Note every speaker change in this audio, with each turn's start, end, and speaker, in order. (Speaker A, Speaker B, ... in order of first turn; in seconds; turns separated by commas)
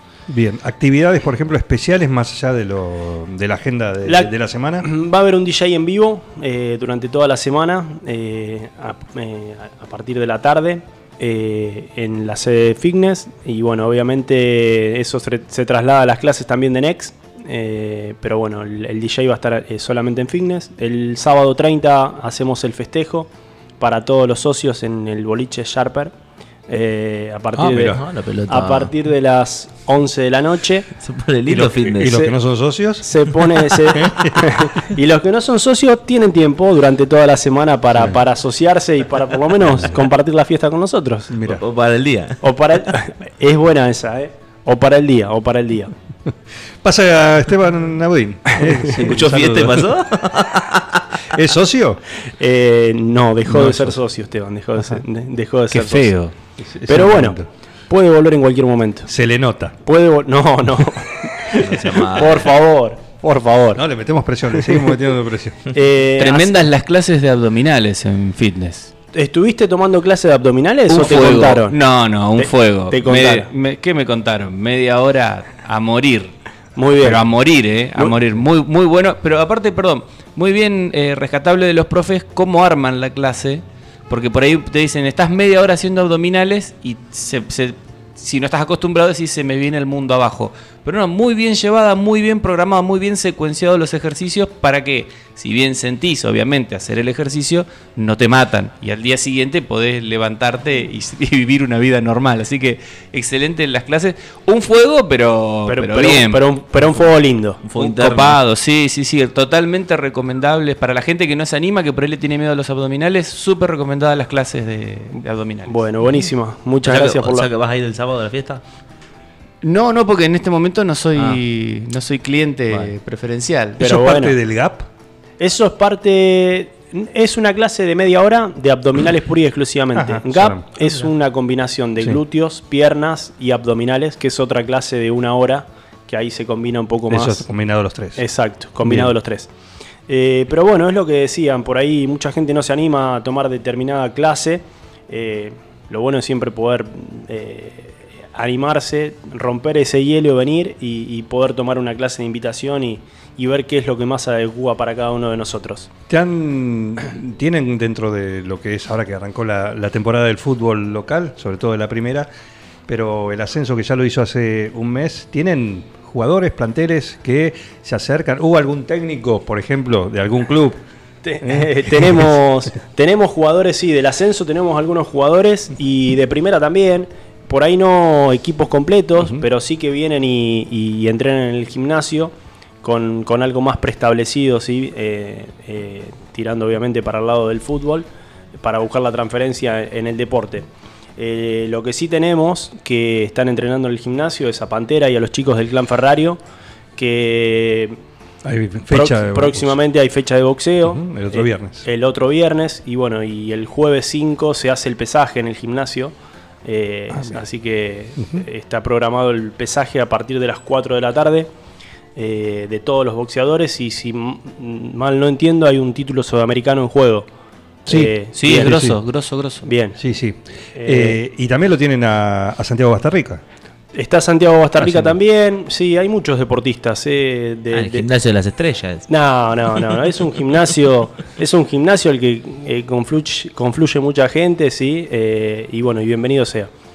Speaker A: 0.3-4.8, Speaker B: 4.0-4.3, Speaker B: 4.8-23.3, Speaker B: 23.8-26.1, Speaker B: 26.7-30.9, Speaker C: 27.6-28.9, Speaker C: 31.0-32.1, Speaker A: 31.4-33.1, Speaker B: 32.0-32.3, Speaker B: 33.0-41.3, Speaker A: 33.9-34.4, Speaker A: 41.3-41.7, Speaker C: 41.7-42.3, Speaker B: 42.4-45.9, Speaker A: 46.8-50.0, Speaker C: 49.1-50.8, Speaker A: 51.3-52.0, Speaker B: 52.4-56.1, Speaker A: 53.5-54.0, Speaker D: 55.7-56.3, Speaker A: 56.6-57.5, Speaker B: 56.9-59.1, Speaker A: 59.1-59.7, Speaker B: 59.8-63.8, Speaker C: 61.6-62.5, Speaker A: 63.8-65.6, Speaker B: 65.7-66.7, Speaker D: 66.2-68.9, Speaker B: 69.1-71.8, Speaker D: 70.9-76.3, Speaker B: 72.4-73.5, Speaker B: 76.8-77.2, Speaker D: 77.0-106.8, Speaker B: 105.7-107.6, Speaker C: 107.7-108.4, Speaker D: 107.8-116.2, Speaker B: 115.7-117.5, Speaker C: 116.8-118.6, Speaker D: 119.6-123.8, Speaker B: 123.8-124.4, Speaker A: 123.8-124.9, Speaker B: 125.4-137.4, Speaker A: 129.9-130.9, Speaker A: 137.1-138.2, Speaker B: 138.2-139.5, Speaker A: 138.8-139.1, Speaker B: 140.1-155.9, Speaker A: 156.1-162.3, Speaker A: 162.9-170.8, Speaker B: 171.2-196.4, Speaker A: 171.4-172.2, Speaker B: 196.9-198.0, Speaker A: 198.4-199.8, Speaker B: 198.9-206.1, Speaker A: 200.8-201.9, Speaker B: 206.7-211.5, Speaker A: 207.1-207.4, Speaker B: 212.2-217.3, Speaker A: 217.9-219.0, Speaker B: 217.9-218.7, Speaker D: 218.4-219.7, Speaker B: 219.6-220.0, Speaker A: 220.0-223.4, Speaker B: 220.8-221.2, Speaker B: 223.9-228.1, Speaker A: 224.8-225.1, Speaker C: 227.8-229.0, Speaker B: 229.1-236.7